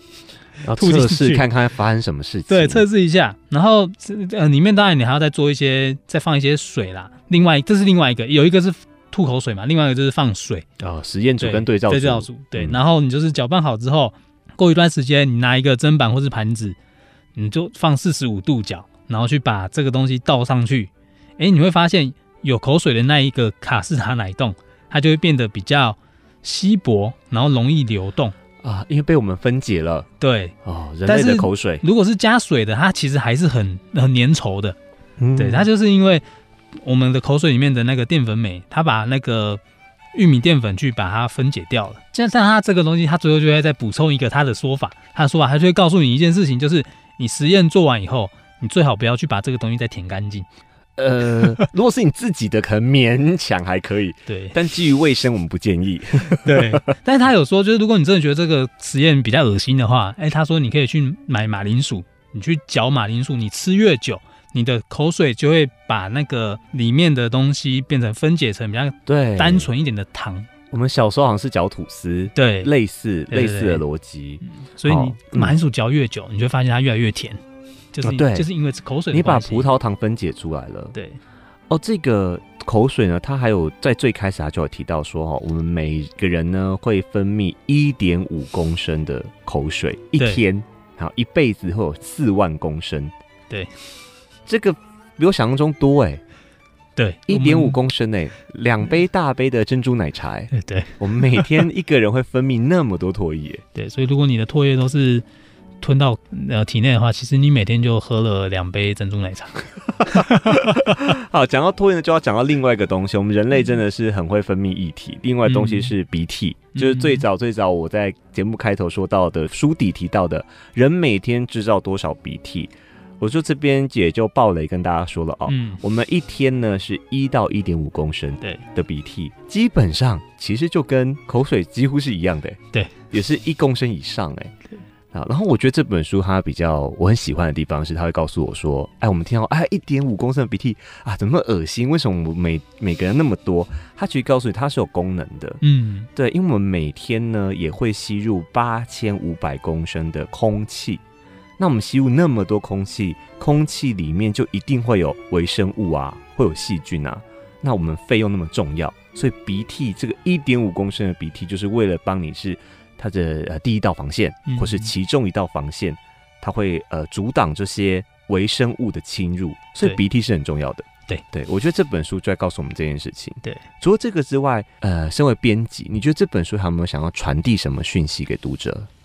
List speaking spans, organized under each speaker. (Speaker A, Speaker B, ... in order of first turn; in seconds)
Speaker A: 0.6-2.8, 10.8-12.8, 28.6-30.1, 30.6-31.8, 35.2-35.7, 51.0-56.8, 69.0-69.7, 70.7-75.5, 78.0-78.5, 79.1-80.9, 81.7-93.1, 94.5-96.2, 97.3-103.6, 110.0-132.6, 133.1-134.5, 135.1-145.6, 146.2-151.0, 151.6-178.9
Speaker B: 0.7-1.4, 2.5-10.7, 11.4-16.8, 17.3-28.3, 30.2-30.5, 31.1-34.8, 35.4-36.2, 36.8-39.6, 40.1-50.5, 54.3-54.5, 56.4-70.5, 72.3-72.7, 73.3-73.8, 74.4-77.4, 77.9-79.7, 80.9-81.2, 90.2-90.4, 97.0-97.8, 100.5-101.6, 103.7-105.2, 105.8-111.1, 115.5-115.9, 116.7-117.2, 125.5-125.8, 145.6-146.1, 164.4-164.9